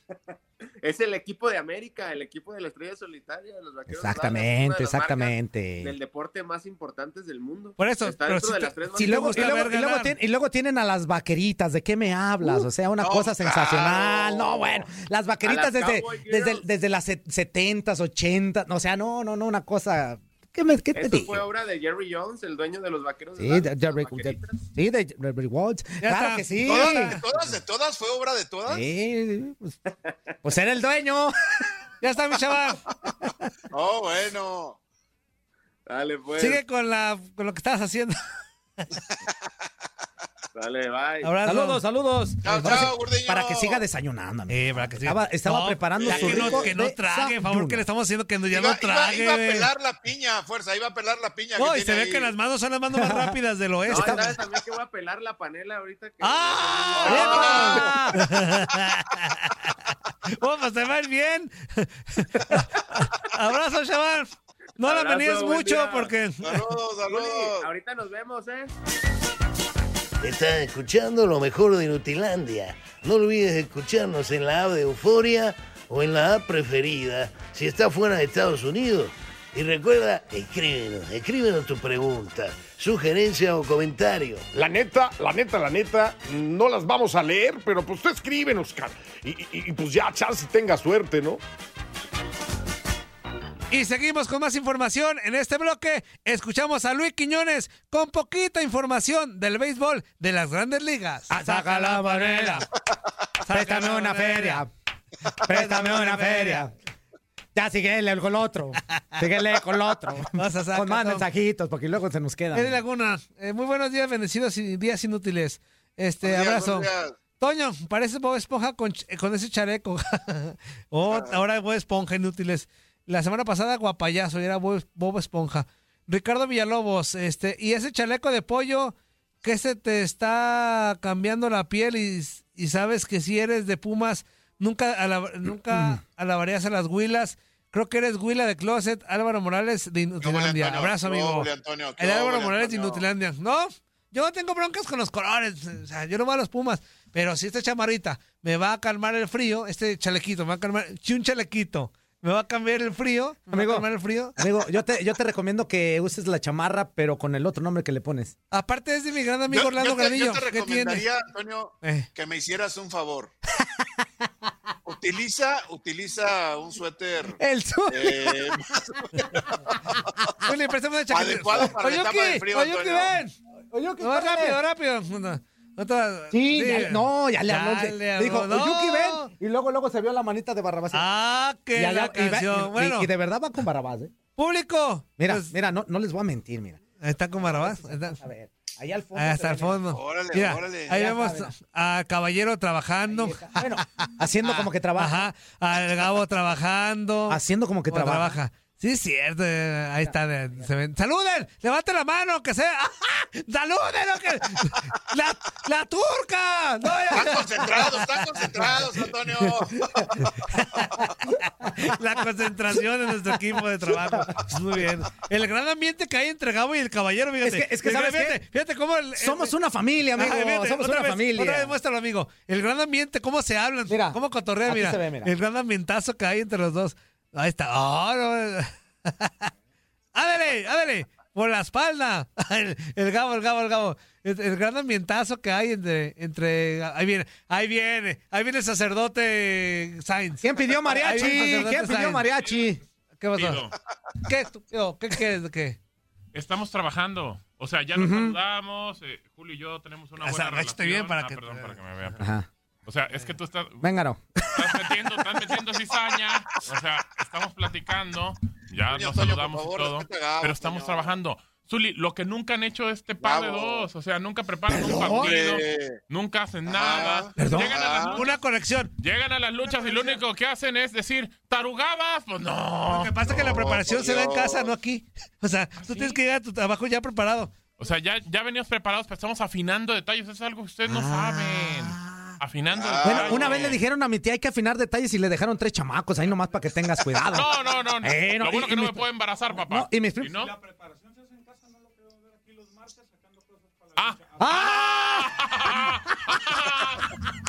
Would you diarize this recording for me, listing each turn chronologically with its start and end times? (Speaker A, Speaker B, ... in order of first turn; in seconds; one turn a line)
Speaker A: 0.8-9.7
Speaker B: 3.9-6.0
Speaker C: 7.8-10.1
Speaker B: 8.9-21.4
Speaker D: 13.0-14.6
Speaker A: 15.4-16.6
Speaker A: 20.9-24.6
Speaker B: 23.4-27.2
Speaker C: 26.0-27.2
Speaker D: 26.6-28.8
Speaker B: 28.7-29.8
Speaker B: 30.4-31.4
Speaker C: 32.0-32.8
Speaker D: 33.7-34.8
Speaker A: 35.9-36.6
Speaker C: 36.4-38.2
Speaker A: 40.5-41.3
Speaker C: 41.2-41.8
Speaker B: 41.5-47.8
Speaker D: 42.4-43.8
Speaker C: 42.5-42.9
Speaker C: 44.5-49.7
Speaker D: 46.0-46.7
Speaker D: 48.5-52.3
Speaker C: 51.6-54.4
Speaker B: 53.0-53.3
Speaker A: 53.9-57.9
Speaker B: 53.9-54.4
Speaker C: 56.2-59.6
Speaker D: 56.9-57.7
Speaker B: 57.1-58.2
Speaker C: 60.4-66.7
Speaker A: 64.8-66.1
Speaker D: 66.4-67.7
Speaker A: 67.1-68.7
Speaker E: 70.2-84.5
Speaker F: 84.5-91.4
Speaker C: 93.7-102.7
Speaker B: 101.3-102.7
Speaker C: 103.5-104.6
Speaker B: 103.5-104.7
Speaker C: 105.4-106.7
Speaker B: 105.4-106.7
Speaker B: 107.5-112.8
Speaker C: 110.3-111.2
Speaker C: 112.5-154.4
Speaker D: 116.2-117.2
Speaker B: 135.7-136.0
Speaker D: 140.2-143.0
Speaker B: 153.5-153.9
Speaker B: 154.4-158.4
Speaker C: 158.5-161.1
Speaker D: 159.5-163.3
Speaker D: 164.9-167.4
Speaker B: 167.4-168.6
Speaker D: 167.9-169.1
Speaker C: 170.4-173.3
Speaker D: 171.1-173.2
Speaker B: 173.7-174.6
Speaker C: 174.0-179.3
Speaker B: 176.3-181.1
Speaker C: 180.9-183.1
Speaker B: 181.7-184.1
Speaker C: 184.4-185.5
Speaker B: 185.2-186.8
Speaker C: 187.0-188.2
Speaker B: 187.4-189.8
Speaker C: 189.2-197.4
Speaker D: 189.9-191.0
Speaker B: 190.9-191.5
Speaker B: 193.1-195.3
Speaker B: 197.3-198.4
Speaker C: 197.9-207.9
Speaker B: 200.1-200.7
Speaker D: 207.1-209.8
Speaker C: 210.5-211.0
Speaker C: 211.6-219.5
Speaker B: 217.4-218.4
Speaker B: 219.2-221.7
Speaker C: 220.2-229.5
Speaker B: 223.9-225.3
Speaker C: 230.1-242.3
Speaker B: 240.4-242.8
Speaker C: 243.2-243.7
Speaker G: 243.3-243.7
Speaker C: 244.3-245.8
Speaker G: 246.3-252.3
Speaker B: 247.9-248.4
Speaker C: 250.2-251.7
Speaker B: 252.2-252.5
Speaker G: 252.9-253.9
Speaker B: 253.8-254.2
Speaker G: 254.6-268.4
Speaker D: 258.9-261.2
Speaker D: 263.2-263.9
Speaker B: 264.7-265.4
Speaker D: 264.9-266.0
Speaker D: 266.7-268.2
Speaker B: 267.4-267.7
Speaker C: 268.1-268.9
Speaker G: 269.0-273.3
Speaker C: 272.9-277.5
Speaker D: 273.3-274.7
Speaker G: 277.8-283.8
Speaker B: 280.9-282.4
Speaker D: 282.7-283.8
Speaker B: 283.0-290.3
Speaker G: 287.3-290.6
Speaker G: 293.9-297.1
Speaker B: 294.4-295.4